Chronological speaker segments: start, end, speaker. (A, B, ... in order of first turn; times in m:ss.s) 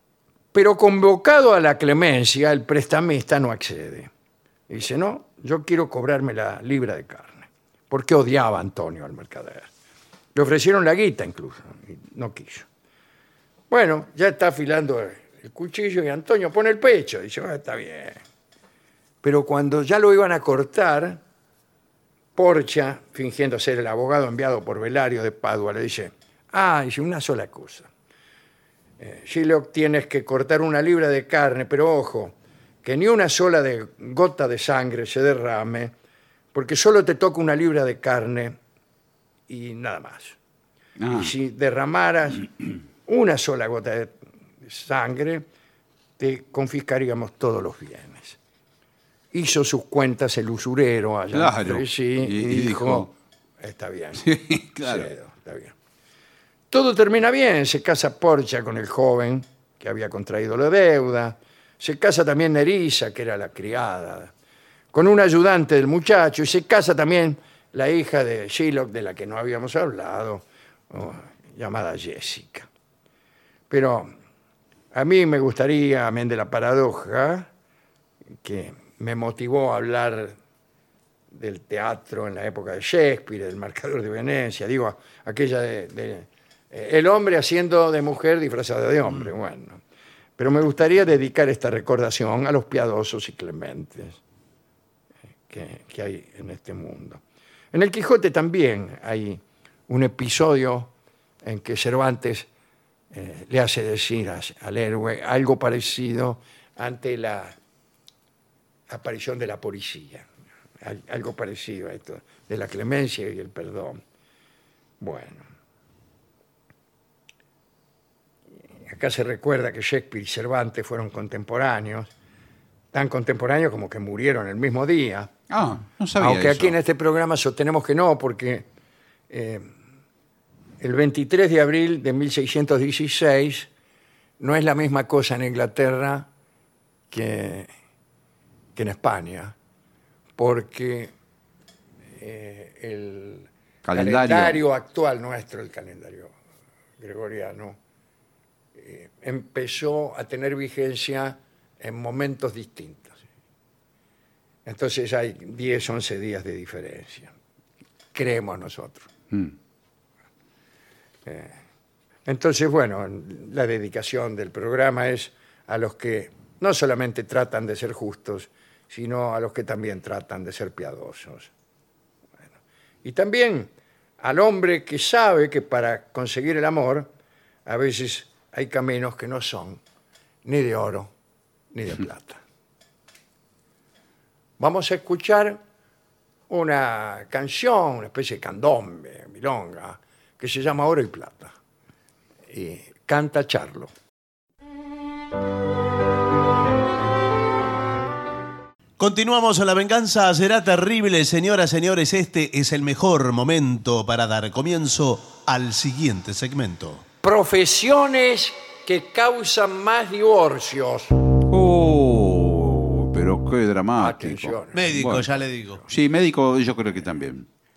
0:00.5-0:04.1 A
0:04.7-0:09.7 A
0:10.4-0:12.7 A
0:13.7-0:18.2 A
0:19.2-0:21.2 A
0:22.4-0:27.9 A
0:29.0-0:35.9 A
0:36.5-0:38.6 A
0:39.5-0:40.4 A
0:41.0-0:41.3 B
0:41.1-0:42.5 A
0:43.1-0:45.5 A
0:46.2-0:48.4 A
0:49.3-0:55.7 A
0:51.3-0:53.1 B
0:54.2-0:55.1 B
0:56.7-1:04.3 A
1:04.9-1:12.7 A
1:13.7-1:14.1 A
1:14.9-1:17.5 A
1:18.4-1:20.4 A
1:21.3-1:29.8 A
1:30.4-1:34.2 A
1:35.5-1:37.2 A
1:37.7-1:40.9 A
1:41.4-1:42.5 A
1:43.1-1:47.6 A
1:48.9-1:50.3 A
1:50.8-1:54.0 A
1:55.0-1:55.4 A
1:58.9-2:02.1 A
2:02.9-2:05.3 A
2:05.5-2:06.8 B
2:06.2-2:08.7 A
2:09.3-2:09.7 A
2:10.8-2:13.7 A
2:14.4-2:16.3 A
2:17.1-2:17.7 A
2:18.8-2:19.5 A
2:20.4-2:21.1 A
2:22.2-2:26.3 A
2:23.8-2:24.6 B
2:27.0-2:27.8 A
2:28.8-2:33.2 A
2:34.7-2:37.3 A
2:38.1-2:39.1 A
2:41.3-2:41.6 A
2:42.3-2:51.5 A
2:53.0-2:57.1 A
2:57.7-2:59.8 A
3:00.4-3:01.1 A
3:01.7-3:02.4 A
3:04.6-3:05.6 A
3:06.5-3:11.5 A
3:12.5-3:13.9 A
3:19.0-3:27.0 C
3:27.2-3:31.2 A
3:31.4-3:35.3 B
3:34.0-3:34.9 A
3:34.7-3:35.8 C
3:35.9-3:37.5 B